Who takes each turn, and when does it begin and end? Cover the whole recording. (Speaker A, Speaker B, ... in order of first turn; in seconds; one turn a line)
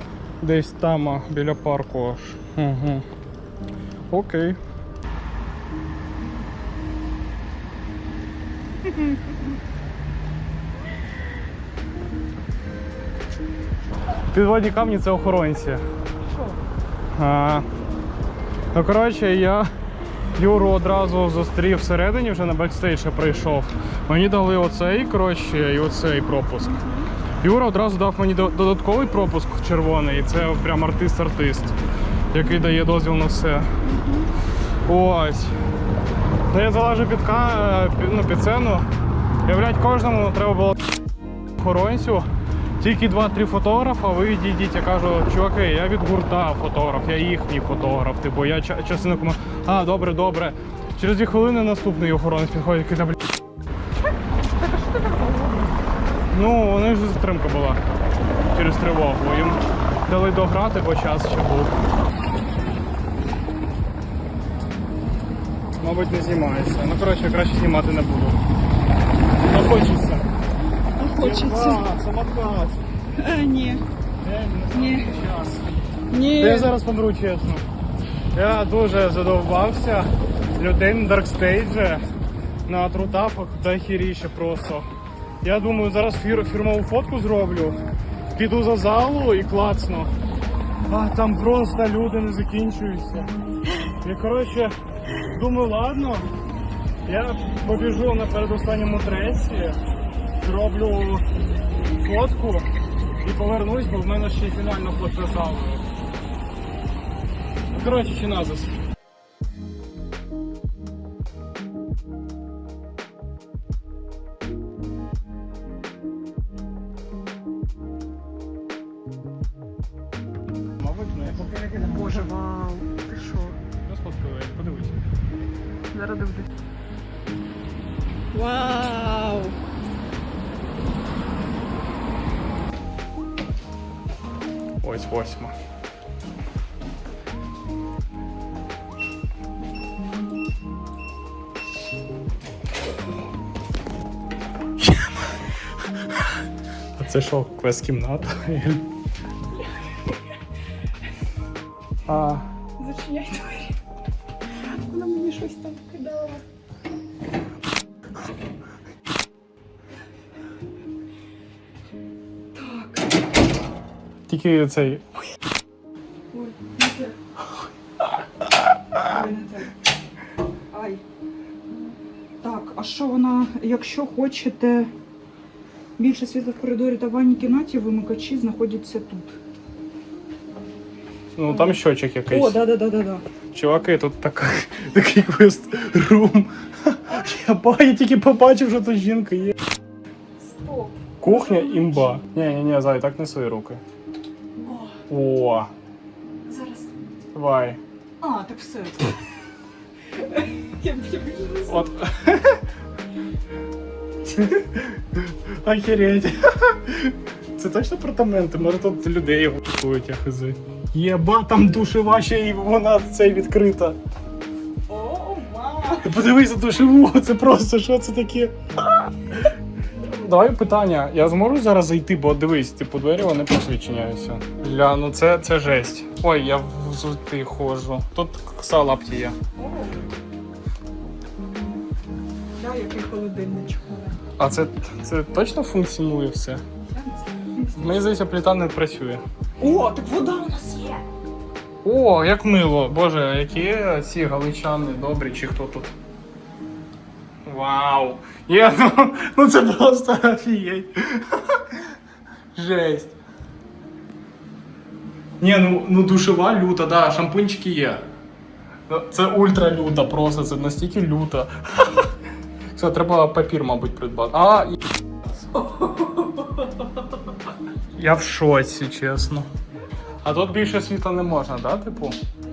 Speaker A: 0.4-3.0
Speaker A: 4.1-4.6
Speaker A: 14.3-15.8
Speaker B: 16.2-16.6
Speaker A: 17.1-17.6
Speaker A: 18.7-19.7
Speaker A: 20.4-26.7
Speaker B: 26.6-27.1
Speaker A: 27.4-31.7
Speaker A: 32.3-33.7
Speaker B: 33.8-34.3
Speaker A: 34.9-35.5
Speaker A: 36.5-38.8
Speaker A: 39.5-40.8
Speaker A: 41.6-42.2
Speaker A: 42.8-53.2
Speaker B: 54.4-55.8
Speaker A: 56.3-57.8
Speaker A: 58.5-61.7
Speaker A: 65.8-68.4
Speaker A: 69.4-70.2
Speaker B: 71.0-71.8
Speaker A: 71.2-72.8
Speaker B: 73.1-73.8
Speaker A: 74.2-75.6
Speaker B: 74.7-75.1
Speaker B: 76.1-76.7
Speaker A: 76.4-77.6
Speaker A: 78.3-82.0
Speaker A: 82.7-84.8
Speaker A: 85.4-87.8
Speaker A: 88.3-90.1
Speaker A: 90.9-93.3
Speaker A: 94.0-94.7
Speaker A: 95.3-96.3
Speaker A: 97.0-99.8
Speaker A: 100.4-101.2
Speaker A: 102.0-102.7
Speaker A: 103.2-105.8
Speaker A: 107.7-108.7
Speaker A: 120.8-121.5
Speaker B: 121.6-123.6
Speaker A: 123.8-125.0
Speaker B: 125.9-126.5
Speaker B: 128.3-129.6
Speaker A: 134.8-135.5
Speaker A: 144.8-145.4
Speaker A: 147.0-148.8
Speaker B: 149.6-150.2
Speaker A: 152.1-152.4
Speaker B: 152.8-153.8
Speaker B: 154.6-156.4
Speaker B: 162.5-163.1
Speaker A: 164.3-165.1
Speaker B: 166.3-167.2
Speaker B: 169.0-169.7
Speaker B: 170.7-171.0
Speaker B: 172.4-174.9
Speaker B: 176.0-179.4
Speaker A: 181.3-182.6
Speaker B: 181.5-181.8
Speaker B: 182.3-183.2
Speaker A: 183.5-189.5
Speaker B: 190.4-192.2
Speaker A: 191.2-193.8
Speaker B: 194.6-195.0
Speaker A: 195.1-195.7
Speaker B: 196.4-196.9
Speaker A: 197.3-197.8
Speaker B: 198.2-199.2
Speaker B: 200.1-201.9
Speaker A: 201.7-202.6
Speaker A: 204.3-214.0
Speaker B: 214.9-216.1
Speaker A: 216.0-218.6
Speaker A: 220.1-229.3
Speaker B: 229.6-230.2
Speaker B: 232.6-234.2
Speaker A: 234.4-236.6
Speaker B: 236.9-238.0
Speaker A: 237.8-239.2
Speaker B: 239.6-241.0
Speaker A: 241.8-245.9
Speaker A: 247.4-251.8
Speaker A: 252.5-253.1
Speaker A: 255.4-258.0
Speaker A: 258.9-262.1
Speaker A: 262.7-264.8
Speaker A: 267.9-269.5
Speaker A: 270.2-272.1